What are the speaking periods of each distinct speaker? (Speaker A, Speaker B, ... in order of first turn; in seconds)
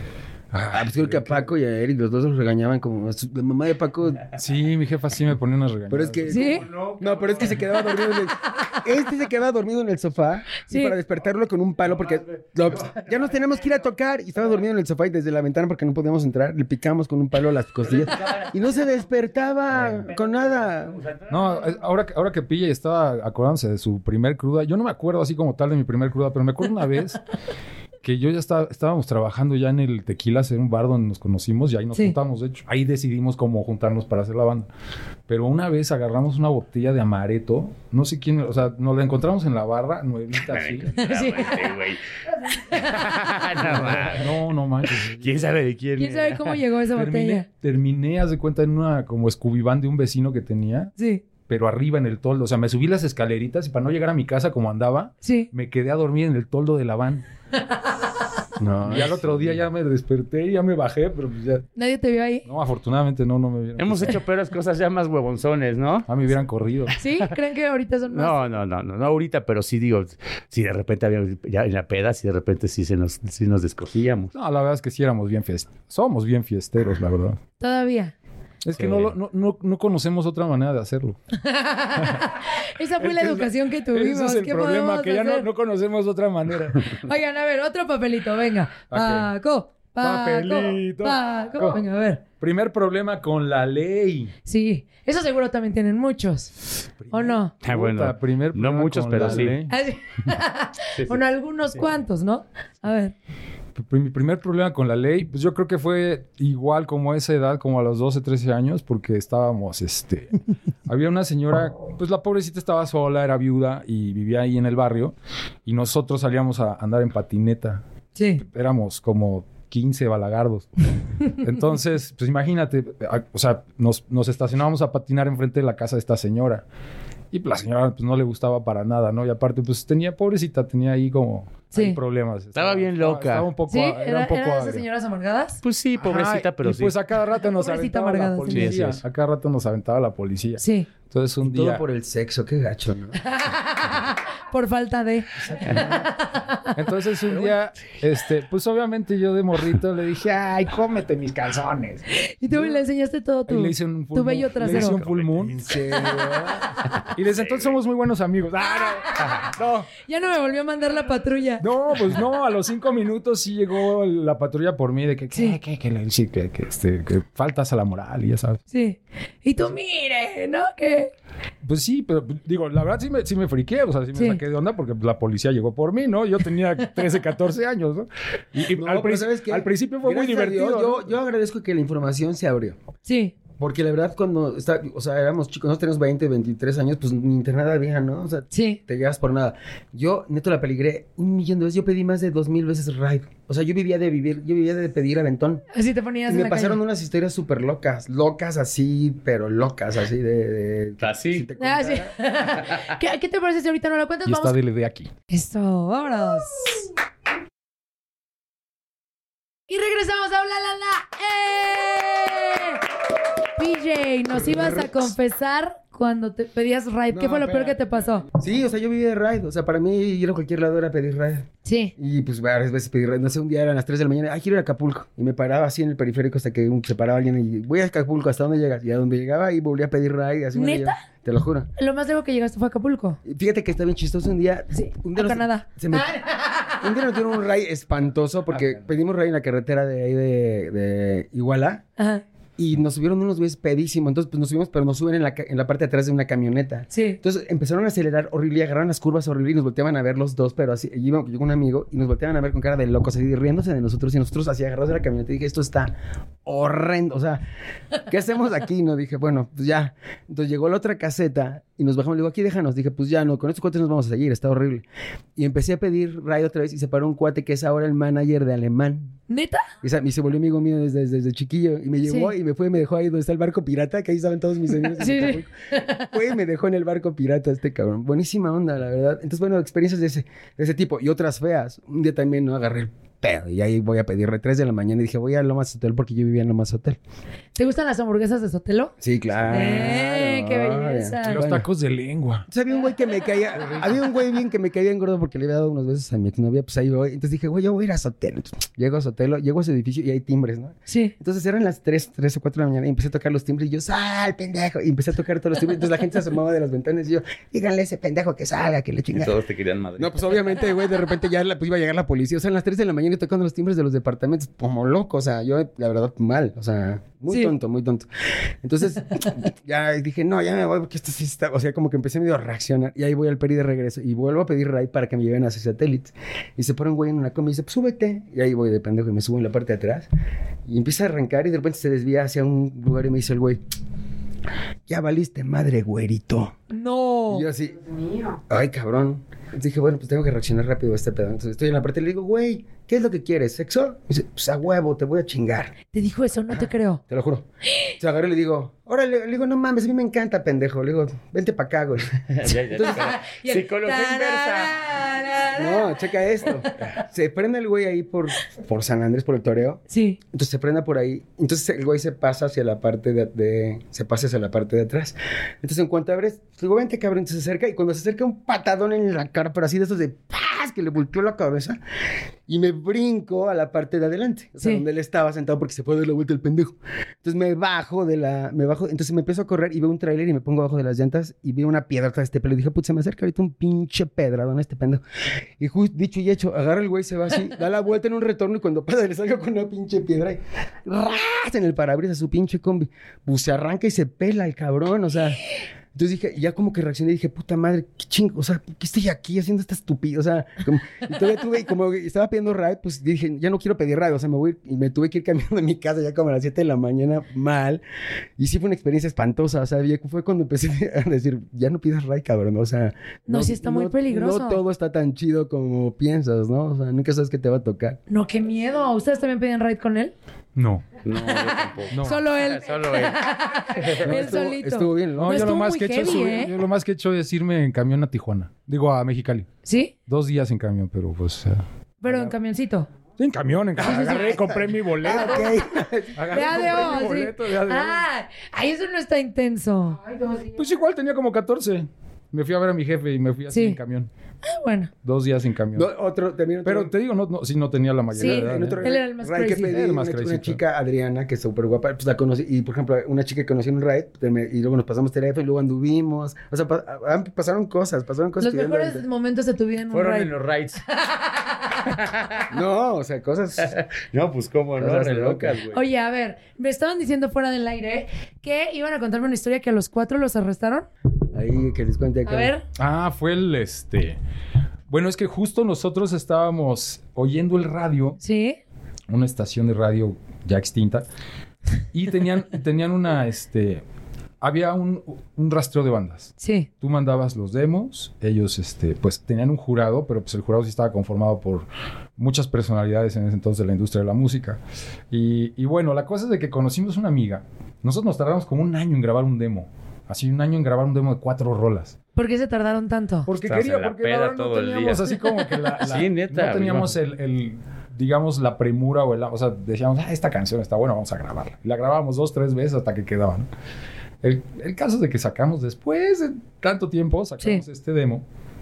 Speaker A: 0.5-1.5, 4.3-6.3, 21.3-27.2, 28.0-34.7, 35.3-40.9, 43.6-45.3, 46.9-50.9, 51.5-57.2, 58.8-61.7, 62.4-64.2, 66.1-66.9, 74.3-77.4, 78.6-81.2, 82.0-82.3, 83.0-86.9, 88.9-89.3, 90.0-91.8, 92.4-94.3, 97.0-99.8, 103.8-110.3, 110.9-117.8, 118.4-120.7, 121.2-126.6, 127.3-134.8, 136.0-141.8, 145.5-146.0, 146.7-152.0, 153.5-155.6, 157.1-159.9, 161.6-168.6, 171.6-181.1, 204.2-205.1, 291.2-292.5, 293.5-294.1, 420.5-420.9, 421.9-422.2, 425.2-429.5, 430.1-432.3, 433.2-435.6, 436.1-438.0, 440.5-444.1, 445.0-445.9, 446.6-448.9, 449.6-450.6, 472.8-474.2, 474.9-478.2, 479.1-481.1, 481.9-483.8, 484.4-494.6, 495.1-501.9, 503.2-513.5, 514.2-518.2
Speaker B: 0.7-4.3, 5.9-21.0, 58.6-59.6, 141.4-143.2, 145.7-146.0, 155.5-156.8, 178.7-182.8, 183.6-195.6, 196.3-202.1, 214.3-215.1, 217.1-231.7, 233.2-236.2, 236.8-241.8, 242.6-255.9, 256.4-257.4, 258.0-264.8, 265.4-269.2, 269.8-287.0, 289.0-291.6, 292.5-309.3, 310.0-318.1, 318.6-330.1, 330.7-333.6, 334.9-336.6, 337.3-337.9, 338.5-345.7, 346.6-347.4, 348.0-353.1, 355.5-371.8, 372.5-385.0, 385.6-395.4, 395.9-407.8, 408.4-418.0, 424.0-425.5, 433.8-437.1, 445.7-446.9, 448.1-459.0, 462.5-463.7, 464.8-465.6, 471.3-472.5
Speaker C: 6.3-6.7, 10.7-10.9, 41.0-41.7, 42.4-43.1, 46.0-47.5, 51.0-51.2, 55.2-55.5, 61.8-62.5, 67.0-68.4, 77.6-78.1, 81.4-85.5, 87.0-92.2, 94.5-96.5, 97.1-97.5, 99.7-103.1, 118.2-118.4, 131.7-132.0, 133.7-135.6, 137.5-138.8, 140.6-140.9, 143.2-146.7, 152.2-155.0, 160.0-161.7, 168.7-171.1, 174.1-174.4, 183.0-183.3, 188.5-188.8, 195.7-196.8, 201.6-204.5, 205.3-206.9, 209.7-212.8, 213.6-218.2, 221.6-221.9, 230.5-230.9, 231.8-233.2, 234.7-236.7, 242.0-242.2, 246.9-247.2, 269.3-269.6, 272.0-272.3, 274.9-276.1, 287.6-288.9, 289.5-291.4, 300.9-301.1, 336.7-337.4, 345.9-347.0, 352.9-355.9, 359.9-360.2, 413.3-414.6, 418.1-420.1, 421.4-426.5, 429.6-429.9, 432.0-432.9, 433.8-434.4, 436.3-440.5, 443.5-443.8, 444.4-444.9, 448.1-449.7, 458.4-460.3, 460.9-461.7, 465.7-470.9, 472.2-472.6, 478.2-478.6, 486.4-486.7, 502.1-503.3
Speaker D: 6.3-8.0, 11.8-13.7, 17.8-21.8, 40.4-42.0, 42.6-44.3, 44.9-46.6, 63.8-66.1, 68.1-74.3, 78.7-79.1, 97.6-99.6, 132.5-133.5, 135.6-137.0, 138.4-139.0, 154.6-156.3, 156.8-157.8, 201.0-201.5, 309.1-310.5, 352.3-354.8, 421.0-424.1, 459.9-460.8, 461.9-462.5, 463.6-465.8, 503.4-505.1, 505.8-506.9